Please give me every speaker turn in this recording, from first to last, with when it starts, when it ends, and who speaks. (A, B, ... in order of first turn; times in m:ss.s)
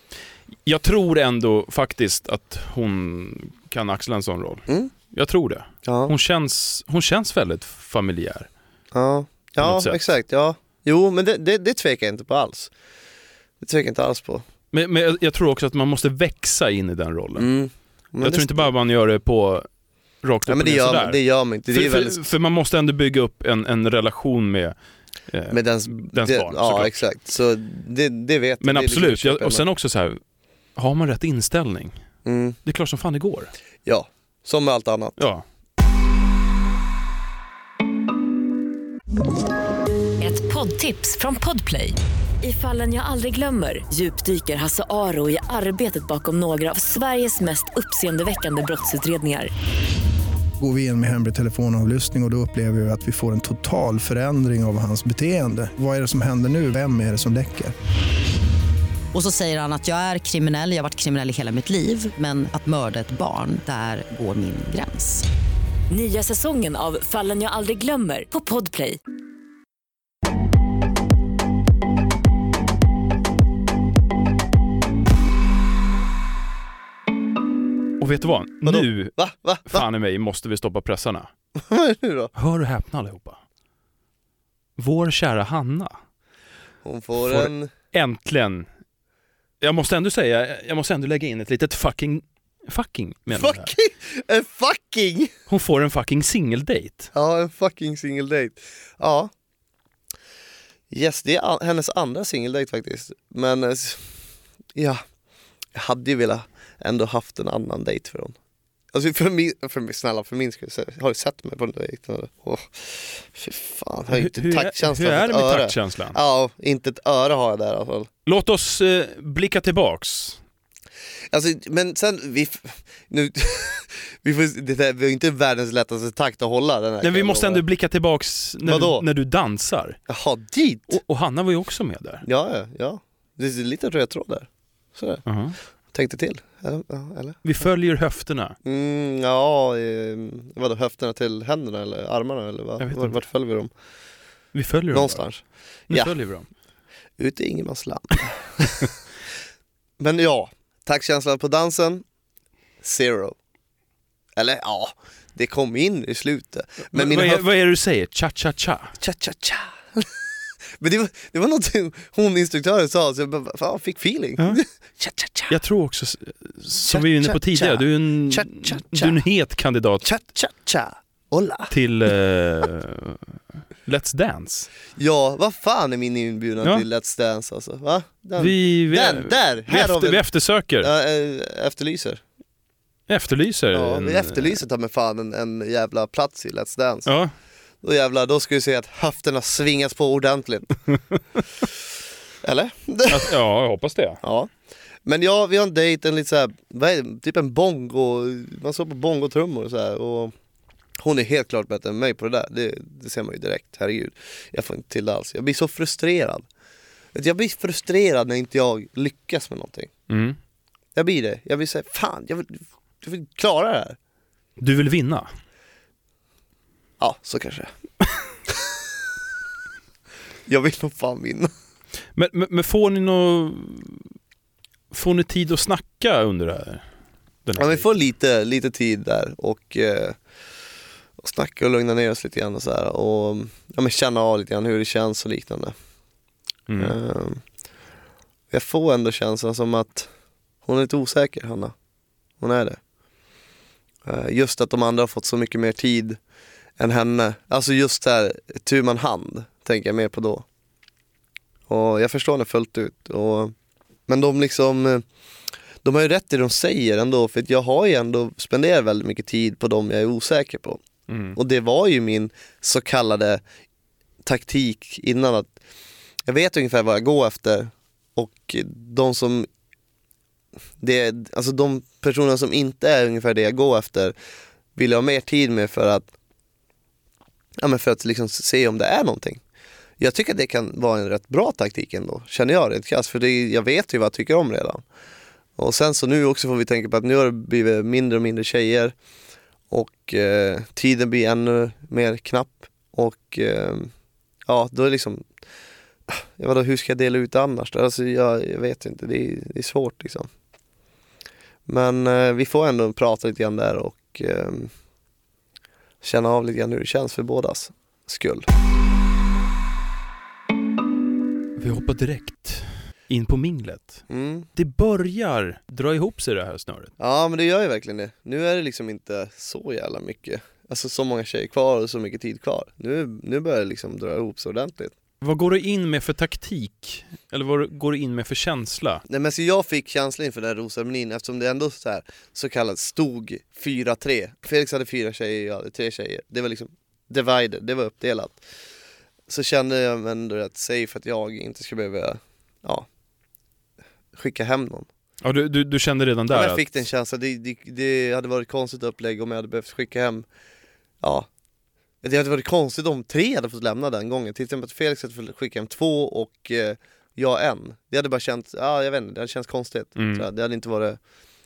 0:00.7-0:08.5 A
0:04.7-0:04.9 B
0:05.8-0:06.1 B
0:08.9-0:12.7 B
0:09.6-0:10.1 A
0:13.6-0:14.4 B
0:14.7-0:17.5 A
0:17.4-0:18.7 B
0:18.2-0:19.7 A
0:20.2-0:24.8 A
0:20.5-0:22.2 B
0:25.3-0:27.0 A
0:25.5-0:29.6 B
0:28.6-0:30.2 A
0:30.8-0:32.0 A
0:32.2-0:32.6 B
0:32.6-0:33.5 A
0:33.8-0:35.2 B
0:35.2-0:35.4 A
0:40.2-0:49.5 C
0:50.6-0:57.7 D
0:59.1-1:05.3 E
1:05.9-1:09.0 C
1:18.0-1:21.3 A
1:18.6-1:19.9 B
1:21.6-1:22.3 B
1:22.4-1:23.4 A
1:24.8-1:26.0 A
1:26.8-1:27.7 B
1:27.2-1:28.7 A
1:29.6-1:33.7 A
1:33.3-1:35.3 B
1:35.5-1:37.1 A
1:37.1-1:39.3 B
1:40.9-1:44.1 B
1:44.8-1:45.0 B
1:45.7-1:48.4 B
1:48.9-1:58.1 B
1:54.1-1:56.2 A
1:58.3-2:00.4 A
2:01.3-2:07.6 B
2:07.0-2:10.0 A
2:08.6-2:09.1 B
2:10.1-2:11.0 B
2:10.9-2:12.2 A
2:12.2-2:15.2 B
2:15.2-2:15.6 A
2:15.9-2:17.4 B
2:17.4-2:18.6 A
2:18.6-2:23.7 B
2:22.8-2:23.2 A
2:24.5-2:25.2 A
2:24.9-2:26.1 B
2:25.9-2:26.5 A
2:27.2-2:28.9 B
2:30.0-2:32.0 B
2:32.8-2:33.4 B
2:34.4-2:37.5 B
2:36.9-2:39.0 A
2:39.0-2:40.2 B
2:40.8-2:45.6 B
2:45.5-2:50.1 A
2:46.9-2:49.2 B
2:50.0-2:51.7 B
2:51.7-2:53.2 A
2:53.8-2:54.7 A
2:55.0-3:00.2 B
2:58.4-3:00.9 A
3:00.8-3:02.2 B
3:03.1-3:04.6 A
3:03.7-3:07.1 B
3:07.1-3:07.3 A
3:07.8-3:10.8 B
3:12.4-3:13.4 B
3:13.1-3:14.2 A
3:14.2-3:14.5 B
3:15.0-3:20.3 B
3:21.0-3:26.5 B
3:27.1-3:29.9 B
3:30.1-3:30.4 A
3:31.0-3:34.0 B
3:34.6-3:35.3 A
3:37.0-3:37.7 B
3:40.5-3:41.5 B
3:42.2-3:44.1 A
3:44.9-3:46.8 A
3:47.4-3:47.9 A
3:47.6-3:50.2 B
3:51.2-3:55.8 B
3:56.7-3:57.0 A
3:56.8-3:57.4 B
3:58.5-4:00.1 B
4:00.6-4:01.7 B
4:02.4-4:02.8 B
4:04.0-4:06.2 B
4:06.8-4:10.4 B
4:11.7-4:13.5 B
4:14.1-4:15.0 B
4:15.8-4:20.8 B
4:21.1-4:21.4 A
4:21.4-4:23.4 B
4:24.2-4:25.5 B
4:26.2-4:29.5 B
4:30.8-4:34.2 B
4:34.8-4:36.1 B
4:37.6-4:39.4 B
4:40.0-4:44.8 B
4:45.6-4:49.0 B
4:49.7-4:53.9 B
4:54.5-4:55.3 B
4:56.1-5:00.3 B
5:01.7-5:04.7 B
5:06.0-5:08.5 B
5:11.6-5:14.0 A
5:14.1-5:14.5 B
5:14.6-5:16.9 A
5:17.0-5:24.9 B
5:25.2-5:29.0 A
5:29.1-5:38.4 B
5:39.3-5:42.9 B
5:44.1-5:44.9 B
5:45.2-5:46.7 A
5:46.3-5:50.3 B
5:51.0-5:51.3 B
5:52.0-6:01.0 B
6:00.0-6:00.3 A